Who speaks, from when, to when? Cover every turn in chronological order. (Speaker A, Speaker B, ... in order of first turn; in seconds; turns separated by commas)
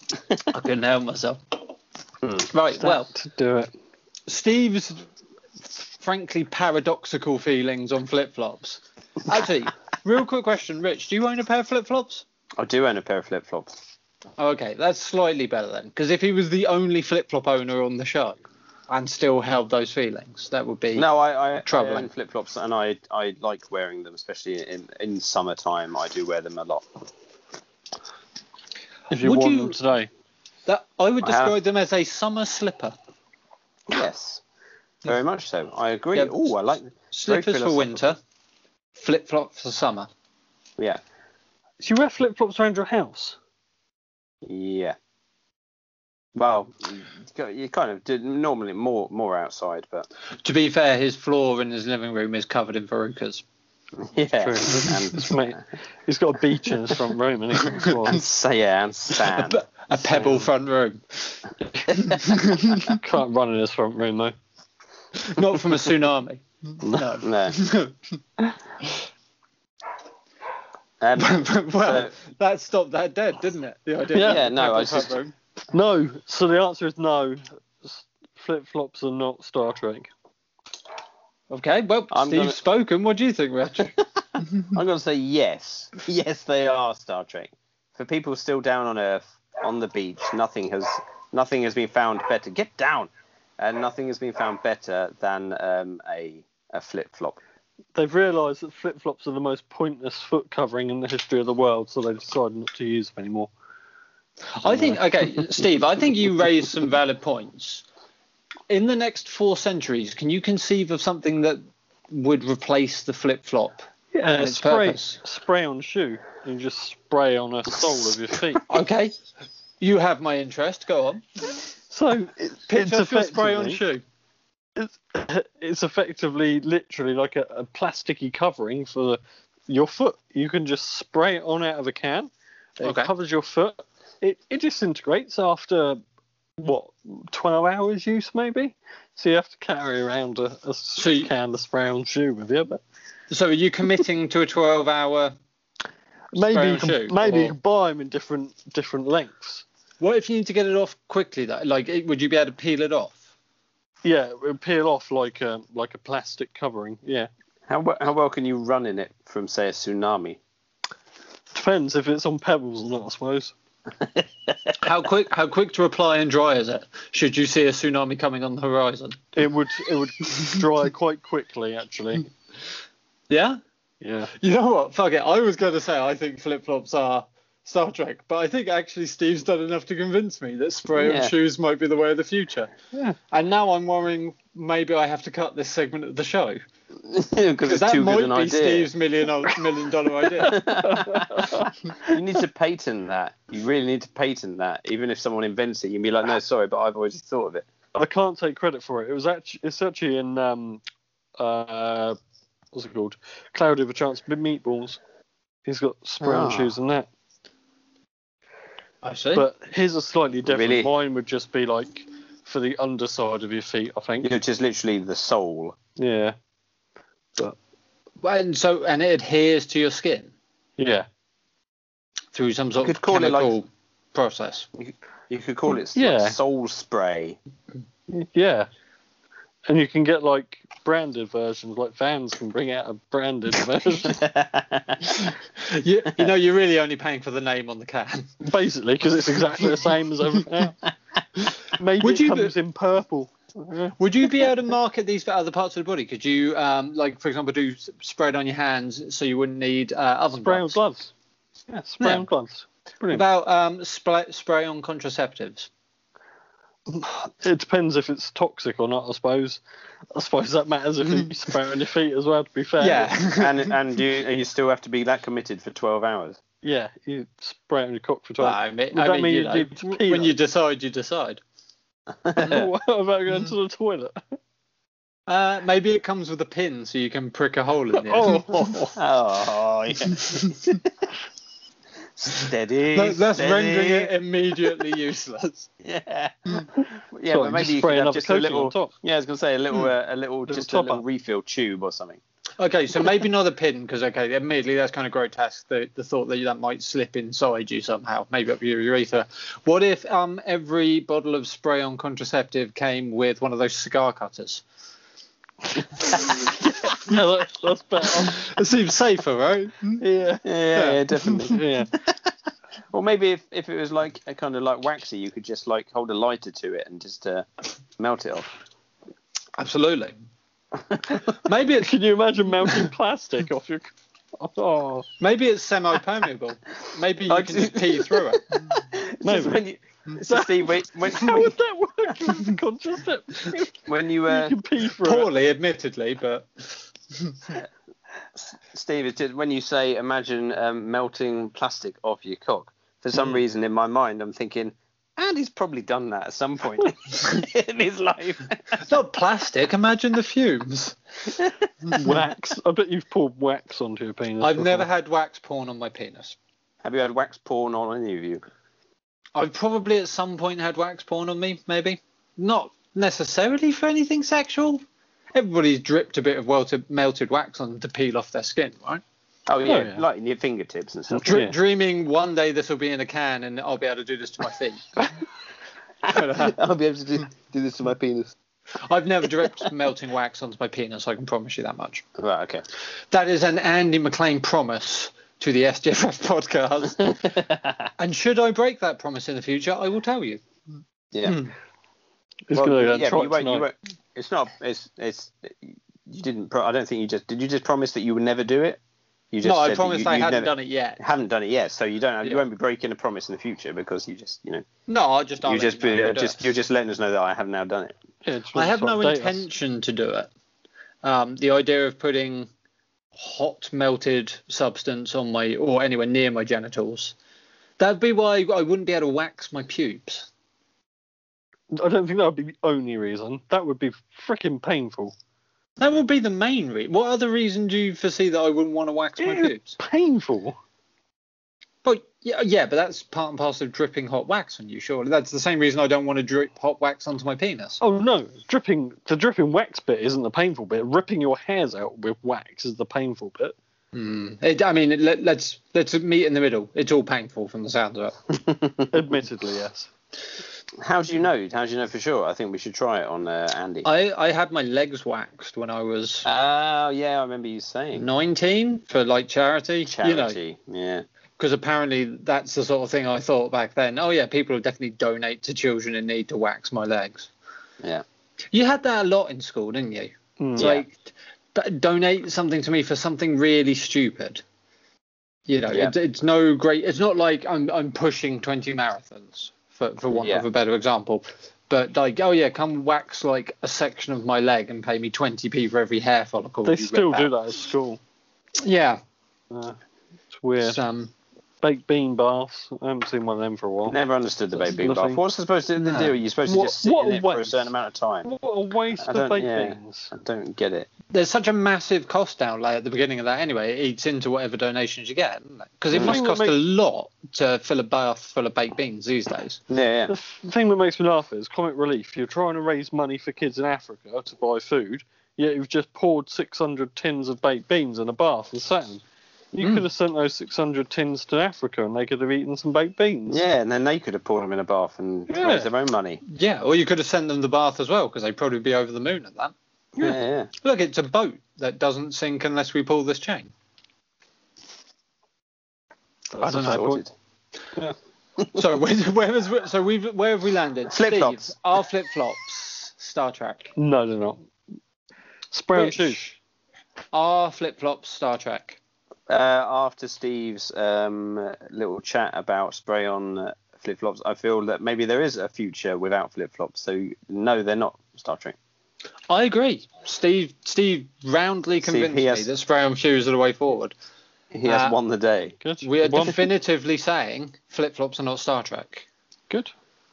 Speaker A: 0.5-1.5, Speaker A: 2.5-3.1, Speaker B: 2.8-3.7, Speaker A: 4.3-5.0, Speaker A: 5.8-12.2, Speaker C: 12.6-13.7, Speaker A: 14.4-18.4, Speaker A: 18.9-21.1, Speaker C: 20.9-26.8, Speaker A: 21.6-22.1, Speaker A: 29.1-29.8, Speaker B: 29.1-30.1, Speaker A: 30.7-32.9, Speaker C: 31.2-31.5, Speaker C: 33.9-34.4, Speaker C: 35.0-38.1, Speaker A: 36.1-36.5, Speaker A: 37.1-38.2, Speaker A: 39.0-40.1, Speaker B: 41.8-43.4, Speaker C: 44.4-44.9, Speaker C: 46.3-50.1, Speaker A: 50.4-53.4, Speaker C: 54.0-55.5, Speaker B: 54.4-58.2, Speaker A: 57.7-57.9, Speaker C: 58.0-60.5, Speaker A: 59.2-61.4, Speaker C: 61.9-63.0, Speaker A: 61.9-62.8, Speaker B: 62.9-64.3, Speaker A: 65.2-67.9, Speaker B: 66.8-67.1, Speaker C: 67.2-67.6, Speaker C: 71.0-72.1, Speaker A: 71.2-75.3, Speaker B: 74.1-74.4, Speaker C: 74.2-75.2, Speaker B: 75.7-80.1, Speaker A: 81.5-83.9, Speaker C: 82.1-82.6, Speaker C: 83.9-97.4, Speaker B: 97.9-103.5, Speaker A: 104.5-107.8, Speaker A: 108.7-113.8, Speaker B: 114.1-118.6, Speaker A: 114.4-115.2, Speaker A: 118.7-119.1, Speaker A: 119.8-121.7, Speaker B: 121.9-123.8, Speaker A: 122.7-124.0, Speaker B: 124.8-136.0, Speaker A: 132.8-133.1, Speaker B: 136.6-142.8, Speaker A: 141.0-141.3, Speaker A: 143.3-145.3, Speaker B: 146.3-149.6, Speaker A: 146.5-147.5, Speaker A: 150.0-153.3, Speaker B: 154.0-157.3, Speaker C: 157.7-160.4, Speaker B: 161.5-163.5, Speaker A: 164.8-169.2, Speaker B: 169.3-172.3, Speaker A: 170.3-170.6, Speaker A: 173.3-173.6, Speaker B: 174.0-174.3, Speaker A: 174.3-186.6, Speaker C: 180.9-181.3, Speaker C: 187.0-188.9, Speaker A: 187.7-190.6, Speaker C: 190.4-197.7, Speaker B: 190.5-192.2, Speaker B: 197.9-200.8, Speaker B: 201.4-202.2, Speaker B: 202.7-205.0, Speaker B: 205.7-207.1, Speaker C: 206.2-206.7, Speaker A: 209.0-209.4, Speaker B: 209.3-214.3, Speaker C: 210.4-210.9, Speaker C: 214.2-215.8, Speaker B: 216.0-216.3, Speaker A: 218.2-220.3, Speaker B: 220.8-221.1, Speaker A: 222.3-224.7, Speaker C: 222.8-223.5, Speaker C: 224.8-227.4, Speaker B: 225.9-226.4, Speaker B: 228.1-228.7, Speaker B: 229.7-234.2, Speaker C: 234.0-235.3, Speaker A: 235.1-238.3, Speaker B: 238.4-240.8, Speaker A: 241.4-242.5, Speaker B: 241.7-243.9, Speaker A: 244.0-250.8, Speaker B: 250.3-251.1, Speaker B: 251.7-253.2, Speaker A: 252.0-252.3, Speaker A: 253.1-255.7, Speaker B: 256.9-259.6, Speaker B: 260.1-263.1, Speaker A: 262.8-263.7, Speaker C: 263.4-266.4, Speaker B: 266.6-270.3, Speaker A: 268.4-271.4, Speaker C: 272.2-272.7, Speaker B: 272.4-274.2, Speaker A: 275.3-278.9, Speaker B: 277.9-278.9, Speaker C: 278.9-280.9, Speaker A: 280.1-280.6, Speaker C: 282.1-284.1, Speaker A: 282.9-285.7, Speaker C: 285.8-292.2, Speaker B: 287.3-288.9, Speaker B: 290.5-291.0, Speaker A: 292.6-304.6, Speaker A: 306.0-307.2, Speaker B: 306.5-308.5, Speaker A: 308.0-310.0, Speaker B: 310.0-310.4, Speaker C: 310.4-312.1, Speaker A: 310.7-311.5, Speaker B: 311.5-311.9, Speaker C: 312.9-317.5, Speaker C: 318.0-318.5, Speaker A: 319.6-320.1, Speaker A: 321.3-321.9, Speaker B: 321.8-325.1, Speaker A: 325.2-328.7, Speaker C: 327.3-331.5, Speaker B: 329.2-329.6, Speaker B: 330.2-335.3, Speaker C: 333.9-334.6, Speaker A: 335.0-337.6, Speaker C: 338.7-348.8, Speaker A: 348.8-351.0, Speaker B: 352.0-354.9, Speaker A: 354.4-356.4, Speaker C: 356.8-358.4, Speaker A: 359.4-364.8, Speaker A: 365.3-369.0, Speaker C: 369.5-371.4, Speaker B: 369.6-370.0, Speaker B: 371.1-371.5, Speaker A: 371.2-374.8, Speaker C: 376.1-378.3, Speaker A: 376.1-376.5, Speaker A: 378.9-382.0, Speaker C: 382.2-382.6, Speaker A: 383.1-387.2, Speaker C: 387.0-387.8, Speaker A: 388.0-390.4, Speaker C: 391.1-391.4, Speaker A: 391.2-391.5, Speaker B: 392.5-393.6, Speaker C: 392.5-398.8, Speaker C: 399.3-404.6, Speaker A: 399.4-401.0, Speaker A: 404.9-406.4, Speaker C: 405.4-407.9, Speaker B: 408.2-409.4, Speaker A: 408.5-410.3, Speaker A: 411.0-412.5, Speaker A: 413.1-417.1, Speaker A: 417.8-420.3, Speaker B: 421.7-425.1, Speaker A: 425.8-429.8, Speaker B: 429.2-430.6, Speaker A: 431.8-437.8, Speaker B: 437.8-443.6, Speaker A: 443.9-448.2, Speaker C: 448.4-448.9, Speaker B: 448.9-449.9, Speaker C: 450.8-453.9, Speaker A: 453.8-456.3, Speaker C: 456.2-458.0, Speaker A: 457.9-460.4, Speaker C: 459.9-461.0, Speaker A: 461.4-467.3, Speaker A: 468.5-471.0, Speaker B: 470.4-470.7, Speaker C: 470.6-470.8, Speaker A: 471.5-474.4, Speaker A: 475.5-487.3, Speaker C: 480.1-480.4, Speaker B: 486.6-488.0, Speaker A: 488.6-489.0, Speaker B: 489.5-489.8, Speaker B: 490.3-490.8, Speaker A: 490.6-491.1, Speaker B: 491.6-494.0, Speaker C: 493.9-498.3, Speaker B: 494.5-495.2, Speaker A: 495.8-496.1, Speaker B: 496.4-497.7, Speaker B: 498.2-500.1, Speaker C: 499.0-500.9, Speaker A: 501.1-509.6, Speaker B: 505.9-506.6, Speaker C: 509.7-510.1, Speaker B: 510.1-519.0, Speaker B: 519.5-523.4, Speaker C: 523.3-526.2, Speaker B: 525.3-525.7, Speaker A: 526.2-529.5, Speaker C: 530.0-530.5, Speaker A: 530.6-533.5, Speaker B: 536.3-537.0, Speaker C: 536.4-537.1, Speaker A: 536.5-536.8, Speaker A: 538.5-543.7, Speaker C: 540.9-541.5, Speaker B: 543.8-544.4, Speaker B: 545.5-546.2, Speaker A: 545.7-546.4, Speaker A: 547.1-548.8, Speaker C: 549.3-558.5, Speaker A: 559.3-563.9, Speaker C: 561.8-562.5, Speaker C: 564.5-565.5, Speaker A: 564.6-565.0, Speaker B: 565.6-566.4, Speaker A: 565.8-569.1